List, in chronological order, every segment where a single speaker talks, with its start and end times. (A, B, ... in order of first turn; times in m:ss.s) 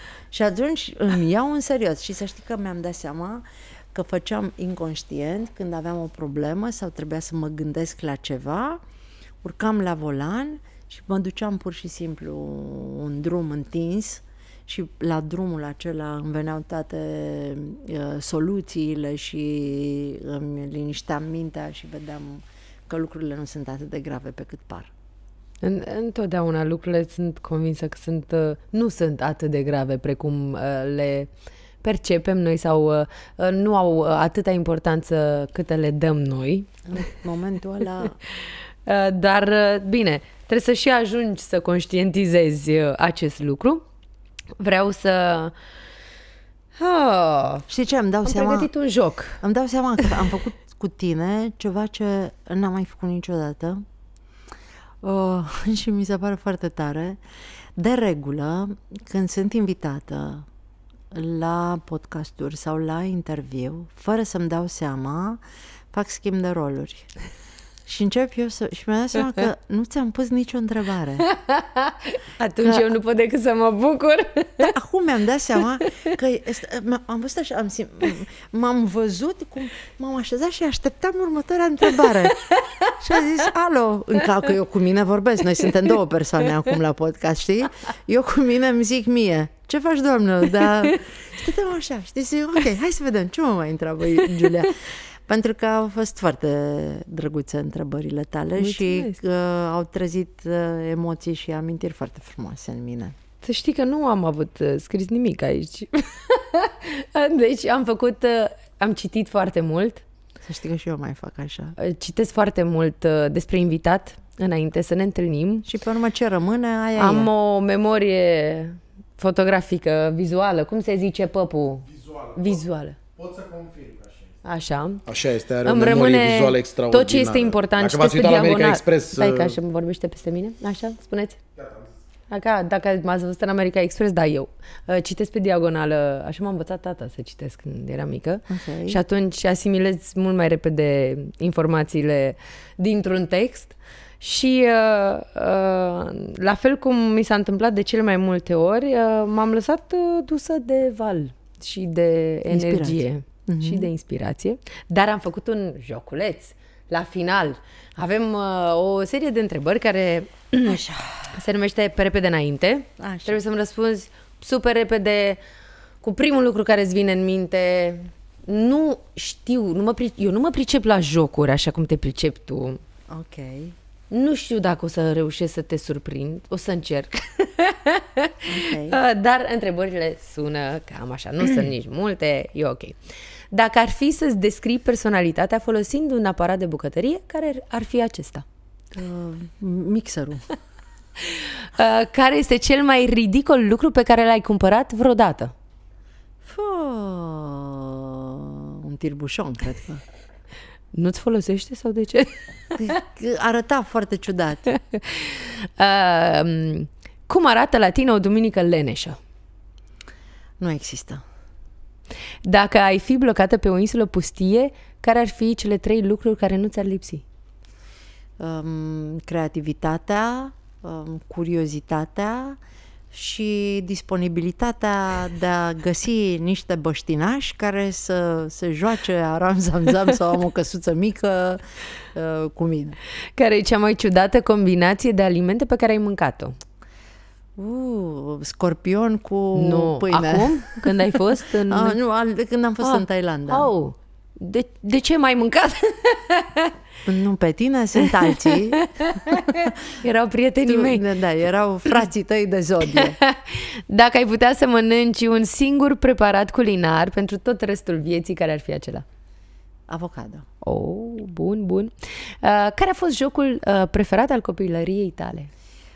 0:00.3-0:08.8 A
0:09.4-0:24.9 A
0:25.6-0:31.3 B
0:31.8-0:36.7 B
0:36.8-0:38.2 A
0:38.8-0:43.8 B
0:44.6-0:45.5 B
0:46.8-0:47.7 B
0:47.7-0:48.7 A
0:48.2-0:49.4 B
0:49.4-0:53.8 A
0:55.0-0:57.2 A
0:57.8-1:00.5 A
1:01.1-1:07.1 A
1:07.8-1:11.3 A
1:11.2-1:14.7 B
1:14.6-1:43.1 A
1:22.0-1:23.0 B
1:38.6-1:39.2 B
1:43.4-1:50.0 B
1:50.4-1:51.7 A
1:51.8-1:55.6 B
1:55.6-1:57.3 A
1:57.0-2:03.0 B
2:04.4-2:05.0 B
2:05.1-2:09.5 C
2:05.6-2:11.4 B
2:12.3-2:40.8 B
2:18.5-2:19.0 A
2:32.5-2:33.9 A
2:40.6-2:41.4 A
2:41.3-2:45.4 B
2:43.0-2:43.4 A
2:46.0-2:52.8 B
2:53.1-2:53.8 A
2:54.1-3:03.0 B
2:58.4-2:59.0 A
3:03.5-3:08.4 B
3:08.9-3:10.4 A
3:11.2-3:15.5 B
3:16.4-3:20.0 A
3:20.9-3:22.9 B
3:22.7-3:24.6 A
3:24.7-3:29.2 B
3:30.6-3:31.2 A
3:32.4-3:37.2 B
3:38.4-3:42.6 A
3:43.1-3:51.6 A
3:52.1-3:53.0 A
3:53.4-3:56.6 B
3:57.6-4:03.7 A
3:59.5-4:02.0 B
4:02.8-4:06.7 B
4:07.0-4:09.8 A
4:08.2-4:11.0 B
4:10.6-4:13.2 A
4:13.0-4:19.0 B
4:19.9-4:20.4 A
4:20.6-4:25.5 B